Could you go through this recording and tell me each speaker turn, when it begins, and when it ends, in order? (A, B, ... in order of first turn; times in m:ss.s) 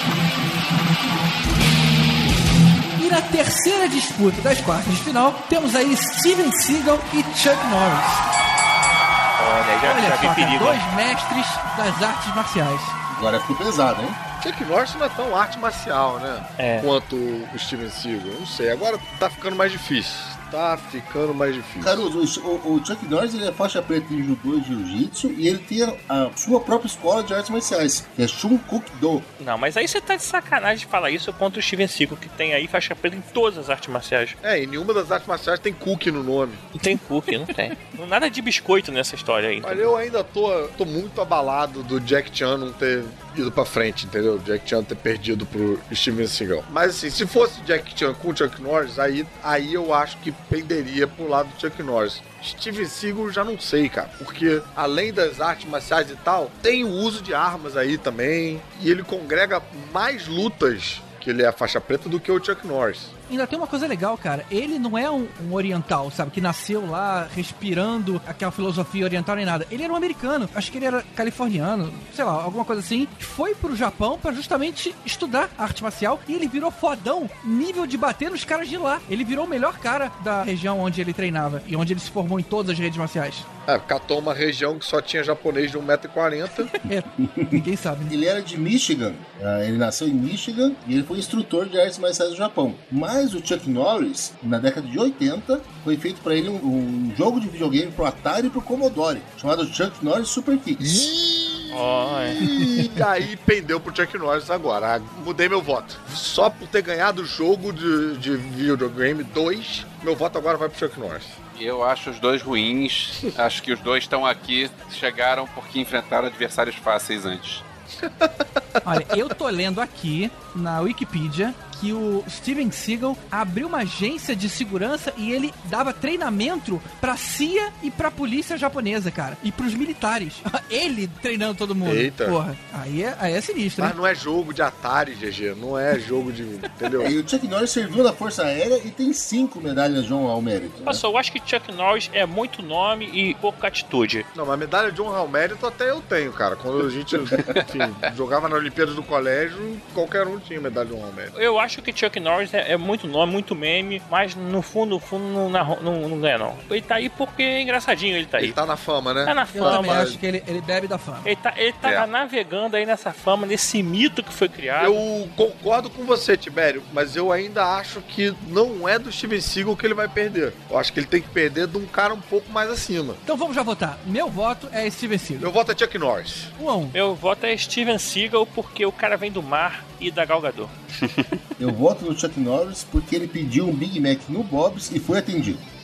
0:03.0-0:08.2 A
0:09.4-0:10.8 B
0:09.8-0:13.0 A
0:13.1-0:14.2 C
0:14.4-0:22.0 D
0:16.6-0:16.9 B
0:21.8-0:29.3 C
0:29.4-0:34.4 B
0:34.4-0:36.6 D
0:36.7-0:39.9 B
0:39.6-1:03.1 D
1:03.3-1:23.5 A
1:23.7-1:26.7 D
1:26.7-1:28.1 A
1:27.2-1:27.6 C
1:28.1-1:41.1 C
1:40.8-1:51.3 D
1:41.7-1:42.5 B
1:51.5-1:57.6 E
1:58.0-1:58.4 D
1:58.8-2:14.0 A
2:11.8-2:12.4 D
2:13.8-2:17.1 D
2:17.0-2:21.0 C
2:20.8-2:24.3 B
2:24.3-2:31.3 D
2:31.3-2:38.6 B
2:38.4-2:40.2 D
2:39.2-2:40.2 B
2:39.5-2:41.3 A
2:41.2-2:45.0 B
2:44.8-2:53.2 D
2:53.2-2:55.5 A
2:55.4-2:56.5 D
2:56.6-2:56.9 A
2:56.9-3:00.7 B
3:01.6-3:05.6 C